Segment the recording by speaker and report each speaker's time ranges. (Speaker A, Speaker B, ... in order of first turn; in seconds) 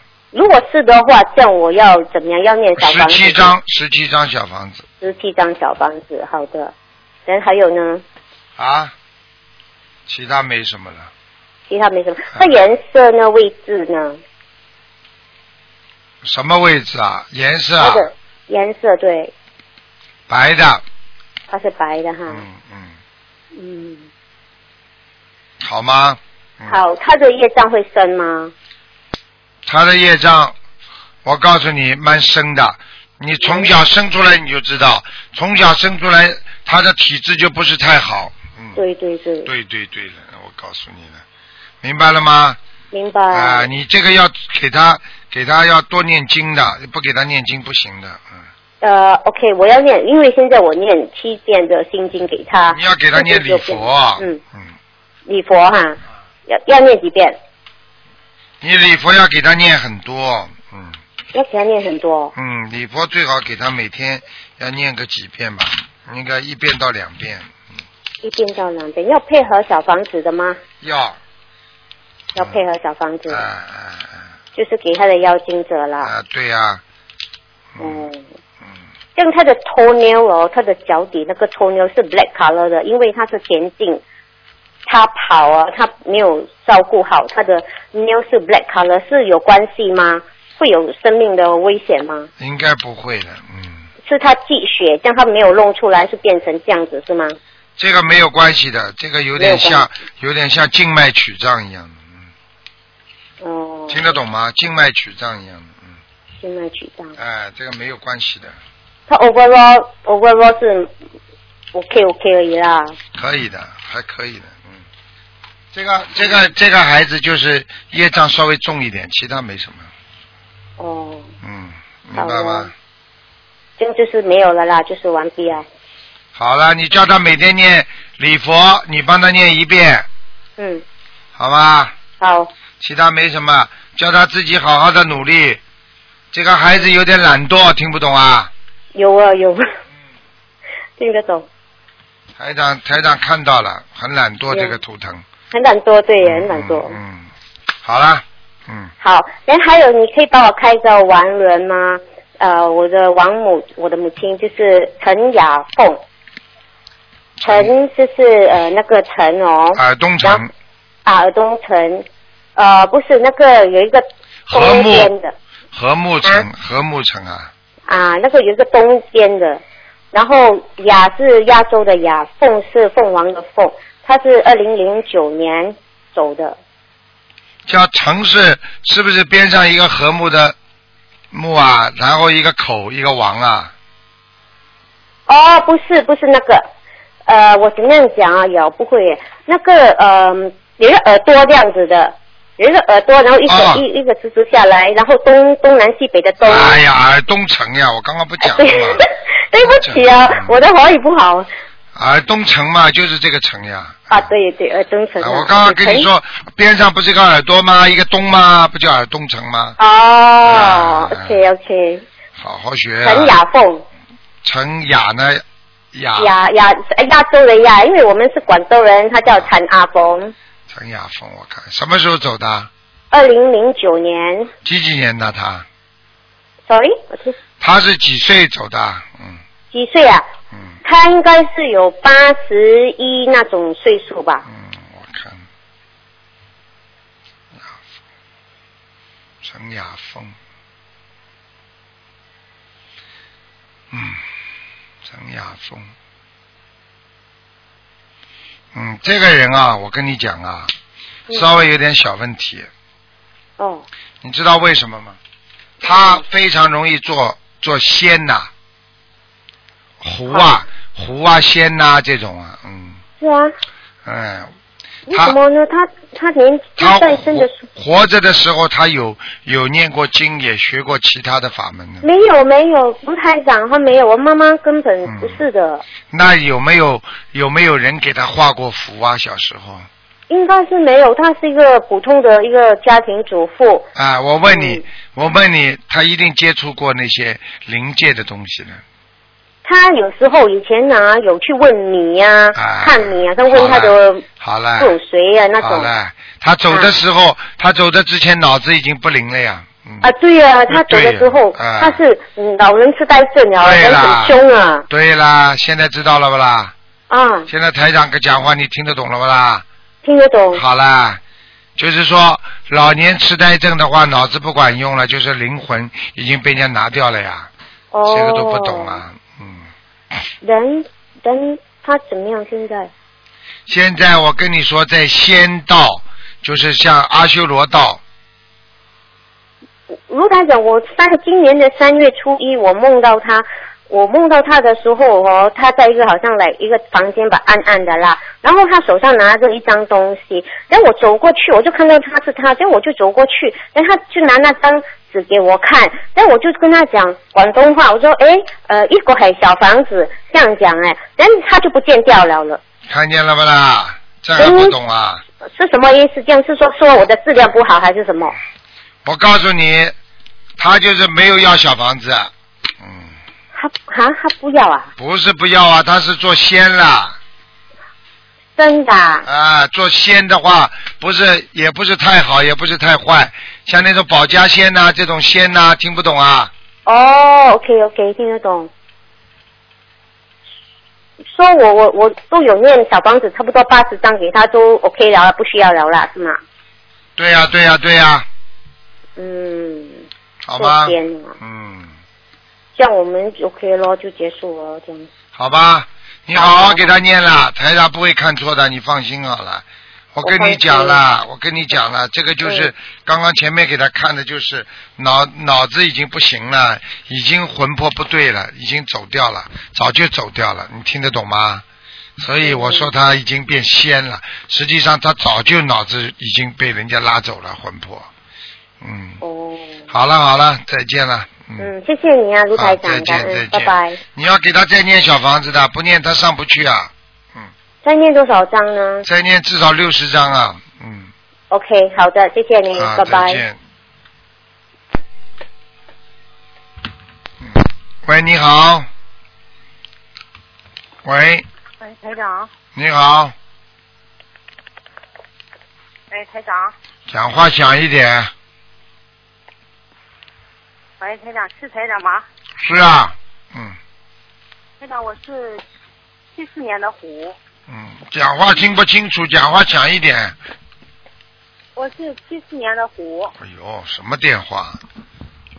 Speaker A: 0.3-3.5, 5.0-6.7, 7.3-8.0, 11.7-14.2, 17.8-19.3, 21.5-22.4, 23.5-24.1, 26.7-28.5, 33.4-33.7, 38.8-39.5, 42.9-43.7, 48.8-54.4, 55.3-57.4, 61.3-62.3, 68.2-70.6, 72.3-73.5, 74.5-76.1, 77.8-78.3, 79.2-84.0, 84.9-92.3, 94.0-97.4, 99.4-99.9, 103.4-104.2, 106.4-107.2, 109.1-110.9, 111.7-113.0, 120.8-121.3, 122.2-122.7, 123.8-125.7, 130.6-130.8, 132.2-132.5, 138.9-139.7, 141.0-141.5, 144.5-144.8, 145.5-147.0, 149.0-156.0, 157.4-160.4, 161.1-165.3, 167.9-169.6, 170.1-176.6, 185.3-186.7, 187.3-196.8, 198.4-201.5, 204.1-206.1, 209.8-212.1, 213.0-213.8, 216.2-220.3, 223.1-224.5, 226.7-227.4, 229.7-230.3, 230.8-234.4, 253.6-253.9, 255.8-256.2, 260.3-260.6, 263.2-263.6, 265.1-267.6, 272.0-275.9, 280.3-283.9, 284.5-284.9, 289.6-294.2, 294.8-295.9, 300.0-304.9, 307.1-307.5, 310.0-310.6, 317.9-319.0, 320.4-322.9, 330.1-352.6, 354.4-354.8, 355.5-358.4, 363.5-364.9, 368.6-369.3, 376.9-378.7, 381.3-386.4, 389.2-390.1, 390.6-391.4, 392.8-395.1, 396.4-397.0, 400.2-401.0, 402.4-402.7, 412.4-412.9, 419.2-419.9, 421.6-424.0, 427.8-429.1, 431.5-433.4
Speaker B: 2.8-4.8, 8.6-8.9, 10.1-11.1, 16.2-18.1, 20.3-20.8, 22.3-23.0, 25.6-26.8, 29.7-30.6, 31.2-38.8, 39.5-41.2, 41.8-42.6, 43.3-48.5, 52.7-54.7, 58.6-61.0, 62.4-67.5, 70.8-71.2, 73.3-74.2, 76.0-76.8, 77.8-78.1, 92.4-93.9, 97.8-102.2, 103.9-106.0, 107.2-108.6, 113.2-114.8, 115.7-119.9, 121.4-122.7, 126.3-130.1, 131.4-131.9, 132.8-135.6, 136.3-138.5, 142.4-145.2, 146.2-147.3, 147.8-148.9, 157.4-157.7, 159.8-160.5, 164.5-165.1, 165.7-167.5, 177.7-180.6, 181.3-183.7, 193.5-193.8, 196.4-199.1, 199.6-200.5, 201.9-204.3, 205.2-209.8, 210.4-211.4, 212.4-213.4, 214.4-216.3, 219.3-219.5, 220.7-222.7, 224.6-225.7, 227.6-229.4, 234.5-235.4, 239.4-240.4, 243.9-244.2, 245.1-245.9, 248.7-250.7, 251.3-252.7, 254.2-255.2, 255.8-258.5, 260.0-263.0, 264.1-264.5, 265.1-265.4, 266.8-272.1, 275.1-275.4, 276.1-279.9, 283.9-288.8, 292.6-294.9, 295.6-300.1, 300.7-302.0, 303.6-304.4, 304.9-306.7, 307.5-309.6, 310.5-311.2, 311.8-317.5, 318.1-319.7, 323.7-328.0, 352.9-355.2, 359.1-359.9, 360.6-363.1, 365.0-367.2, 369.3-376.5, 387.2-388.3, 390.4-391.9, 395.4-411.6, 412.2-418.1, 418.8-419.2, 419.9-421.7, 422.6-427.5, 429.1-431.1, 432.8-433.6, 437.4-438.9, 441.0-441.4, 442.8-443.3, 447.1-448.3, 452.6-453.8, 457.7-460.4, 463.4-464.8
Speaker C: 441.8-442.5, 446.1-446.7, 451.0-452.3, 454.8-455.6, 456.4-457.4, 461.8-463.3